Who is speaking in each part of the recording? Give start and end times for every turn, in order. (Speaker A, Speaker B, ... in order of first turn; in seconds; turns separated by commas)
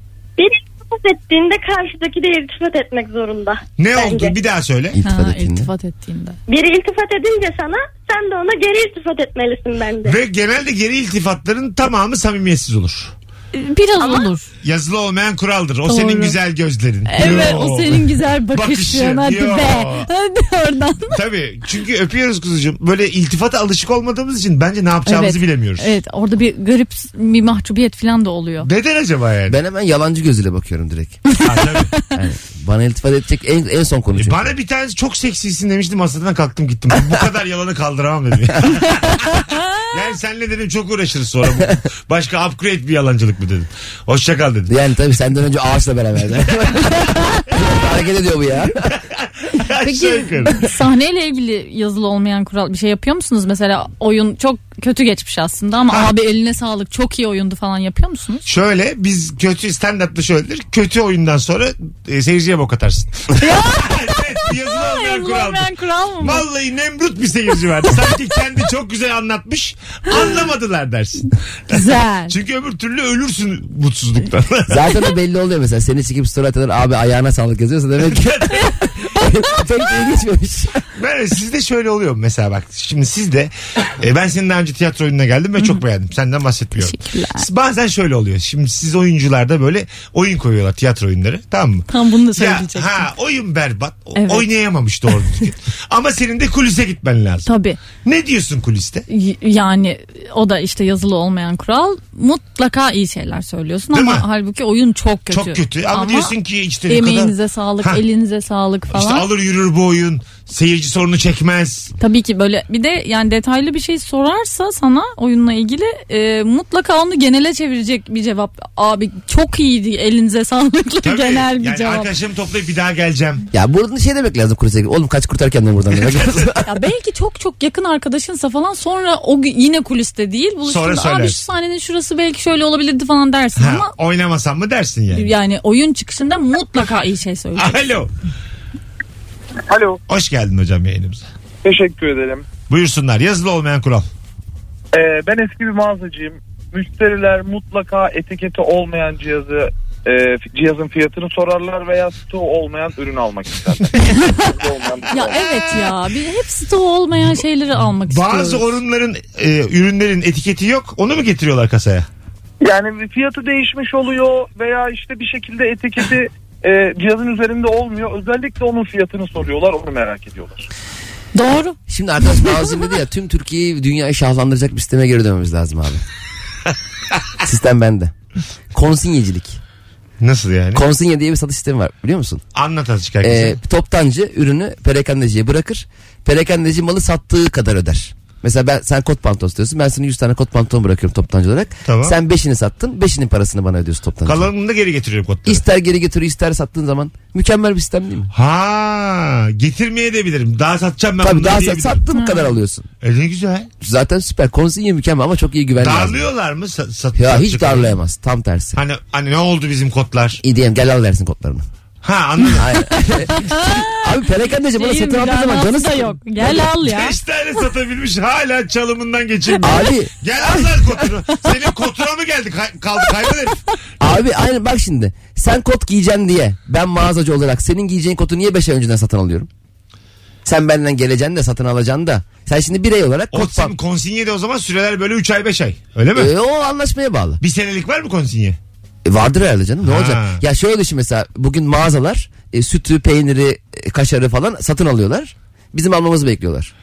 Speaker A: 0.4-4.3, Speaker B: 3.8-5.0, Speaker C: 4.9-5.7, Speaker D: 5.0-6.4, Speaker A: 6.5-10.2, Speaker B: 10.0-13.1, Speaker D: 13.5-14.5, Speaker B: 14.6-20.1, Speaker D: 15.9-16.3, Speaker D: 17.1-21.2, Speaker B: 21.1-25.9, Speaker D: 25.1-28.7, Speaker B: 28.6-29.6, Speaker C: 29.5-31.2, Speaker B: 31.4-31.9, Speaker C: 32.1-34.5, Speaker B: 34.1-44.7, Speaker C: 44.7-48.9, Speaker B: 48.9-50.7, Speaker D: 49.8-58.4, Speaker B: 58.5-65.7, Speaker D: 63.4-66.4, Speaker B: 66.2-74.9, Speaker D: 71.7-72.3, Speaker C: 74.7-80.8, Speaker B: 78.0-78.8, Speaker B: 81.0-97.5, Speaker D: 86.8-87.5, Speaker D: 91.9-93.1, Speaker D: 94.2-94.5, Speaker D: 97.5-97.8, Speaker B: 98.0-99.0, Speaker D: 99.1-106.3, Speaker B: 103.9-104.2, Speaker B: 105.3-108.0, Speaker D: 106.9-109.3, Speaker B: 108.9-111.9, Speaker D: 112.0-122.1, Speaker B: 121.0-123.5, Speaker C: 123.5-126.6, Speaker B: 126.0-126.5, Speaker D: 126.7-133.9, Speaker B: 130.7-131.4, Speaker B: 133.6-135.3, Speaker D: 135.1-137.8, Speaker B: 137.6-138.1, Speaker E: 139.7-140.0, Speaker B: 140.1-141.2, Speaker E: 141.6-142.5, Speaker B: 142.7-144.1, Speaker E: 144.9-155.4, Speaker D: 155.1-158.7, Speaker B: 157.8-162.1, Speaker E: 162.6-170.6, Speaker D: 171.3-171.8, Speaker C: 171.9-176.0, Speaker C: 177.4-178.1, Speaker C: 178.7-179.6, Speaker B: 180.2-180.8, Speaker C: 180.7-182.4, Speaker B: 182.5-183.6, Speaker C: 183.2-194.5, Speaker B: 191.8-192.2, Speaker B: 194.2-195.6, Speaker C: 195.4-198.3, Speaker B: 198.3-202.0, Speaker C: 201.2-202.9, Speaker D: 202.1-202.5, Speaker B: 203.0-203.7, Speaker C: 203.8-206.2, Speaker B: 205.8-207.9, Speaker C: 207.1-208.8, Speaker B: 208.7-210.4, Speaker C: 210.4-211.6, Speaker B: 212.0-212.7, Speaker C: 212.5-216.4, Speaker D: 213.3-214.0, Speaker D: 214.7-217.2, Speaker B: 216.4-223.6, Speaker C: 219.6-220.6, Speaker C: 224.0-229.5, Speaker C: 230.4-233.7, Speaker B: 233.3-236.3, Speaker C: 236.1-237.4, Speaker B: 237.4-238.6, Speaker C: 239.0-246.7, Speaker B: 239.8-240.4